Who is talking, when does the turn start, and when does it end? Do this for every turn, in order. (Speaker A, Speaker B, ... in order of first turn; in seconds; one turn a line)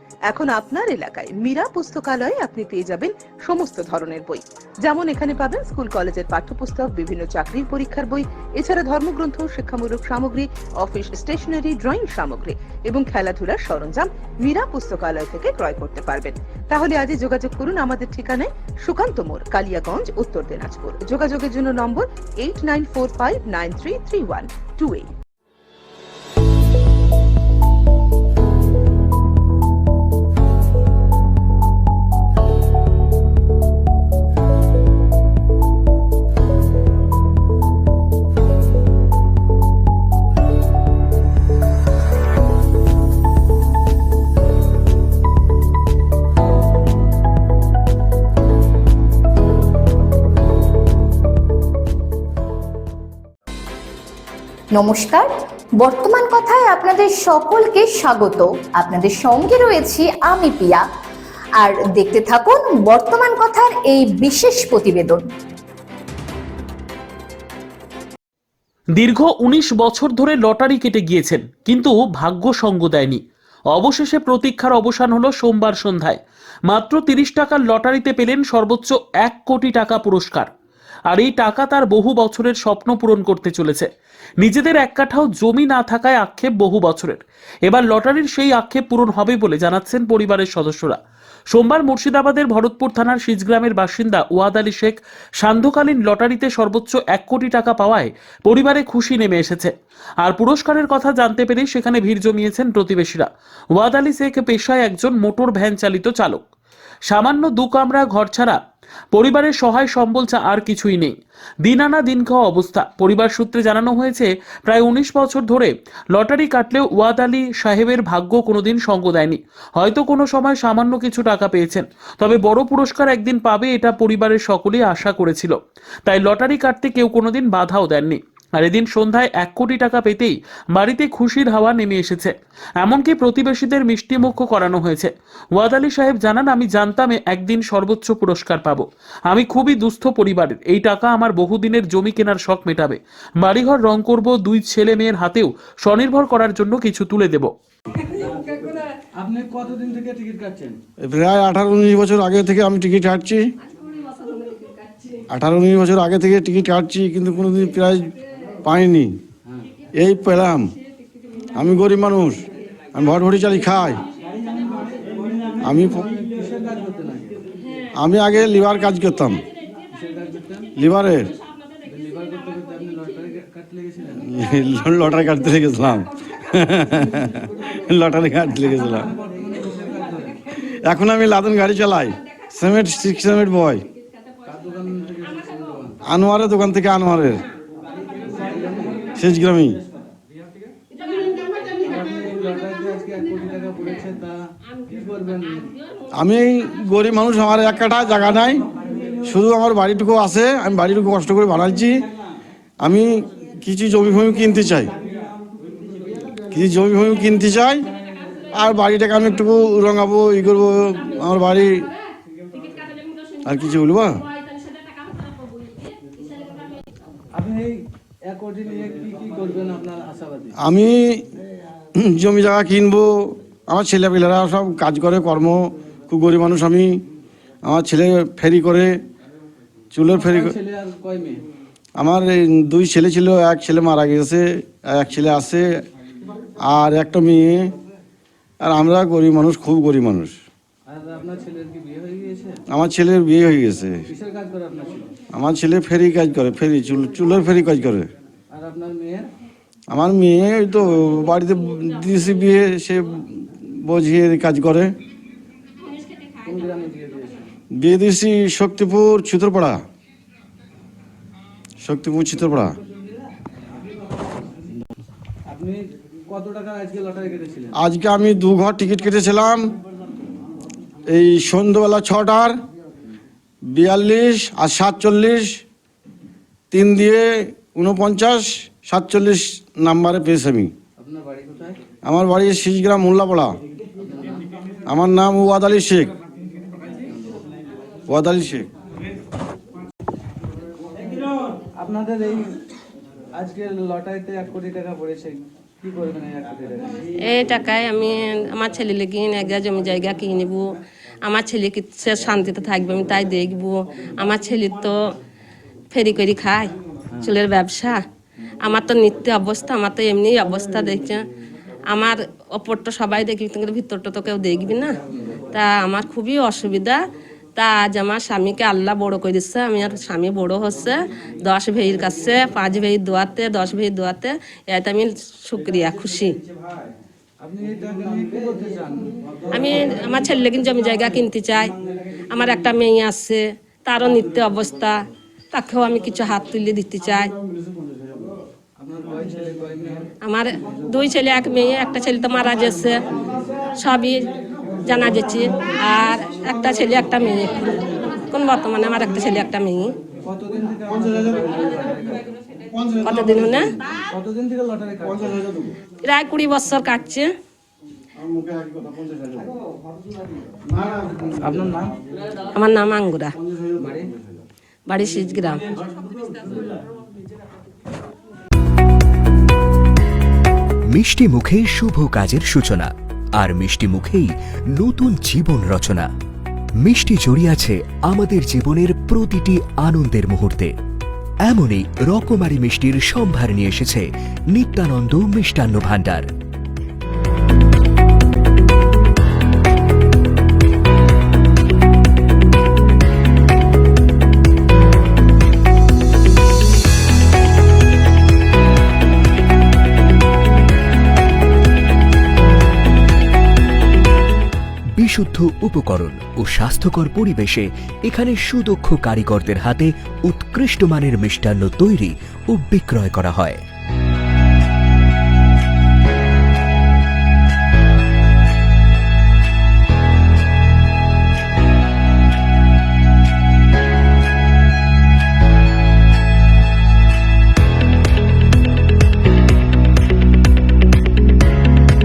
Speaker A: 0.3-25.1
Speaker B: 54.7-60.9
Speaker B: 61.6-65.2
Speaker C: 69.0-73.2
Speaker C: 73.7-80.5
Speaker C: 81.1-83.9
Speaker C: 84.4-91.0
Speaker C: 91.5-106.4
Speaker C: 107.1-108.6
Speaker C: 109.1-147.5
Speaker D: 149.2-150.8
Speaker E: 151.0-153.4
Speaker E: 155.3-159.1
Speaker E: 160.0-160.7
Speaker E: 161.5-164.0
Speaker E: 165.6-166.1
Speaker D: 166.1-167.3
Speaker E: 167.9-169.4
Speaker D: 169.9-170.7
Speaker E: 170.8-171.3
Speaker D: 171.8-174.2
Speaker E: 174.2-179.1
Speaker D: 179.1-180.3
Speaker E: 180.6-183.8
Speaker D: 184.5-185.9
Speaker E: 186.0-187.4
Speaker D: 188.3-189.0
Speaker E: 189.1-189.8
Speaker D: 191.8-195.7
Speaker E: 196.1-198.6
Speaker E: 199.2-202.0
Speaker E: 202.8-204.9
Speaker E: 206.5-207.8
Speaker E: 208.5-211.9
Speaker E: 213.4-214.2
Speaker D: 217.3-220.5
Speaker E: 220.6-221.3
Speaker E: 221.9-226.9
Speaker E: 227.7-228.9
Speaker E: 229.9-230.6
Speaker D: 230.1-231.4
Speaker E: 232.0-235.7
Speaker E: 236.6-237.7
Speaker E: 238.6-240.3
Speaker D: 240.9-242.6
Speaker E: 242.7-244.0
Speaker D: 244.1-245.1
Speaker E: 245.3-248.1
Speaker D: 248.5-249.3
Speaker E: 249.9-254.9
Speaker D: 256.4-257.3
Speaker E: 257.8-259.8
Speaker E: 261.8-262.7
Speaker D: 265.5-267.7
Speaker E: 267.8-269.7
Speaker E: 271.1-272.6
Speaker E: 273.7-275.6
Speaker E: 276.7-280.7
Speaker D: 281.0-281.8
Speaker E: 282.0-283.6
Speaker D: 284.1-284.4
Speaker E: 284.9-286.1
Speaker E: 288.1-288.7
Speaker D: 291.8-292.6
Speaker D: 293.4-296.9
Speaker F: 297.2-305.0
Speaker F: 305.9-308.0
Speaker F: 308.6-311.2
Speaker F: 311.9-315.0
Speaker F: 315.5-317.0
Speaker F: 317.6-326.4
Speaker D: 327.4-329.4
Speaker F: 329.5-331.7
Speaker F: 332.3-337.3
Speaker D: 338.8-340.1
Speaker F: 340.2-343.0
Speaker F: 343.8-344.3
Speaker F: 344.8-349.9
Speaker D: 350.2-352.2
Speaker E: 350.9-351.2
Speaker E: 352.7-353.6
Speaker F: 353.0-353.7
Speaker D: 354.1-355.3
Speaker E: 355.0-355.7
Speaker F: 356.0-357.3
Speaker E: 358.1-359.5
Speaker E: 360.7-361.2
Speaker D: 361.4-361.9
Speaker F: 362.5-363.3
Speaker E: 363.4-364.1
Speaker F: 364.9-365.6
Speaker G: 370.9-376.1
Speaker G: 376.8-380.7
Speaker G: 381.4-386.3
Speaker G: 405.0-413.6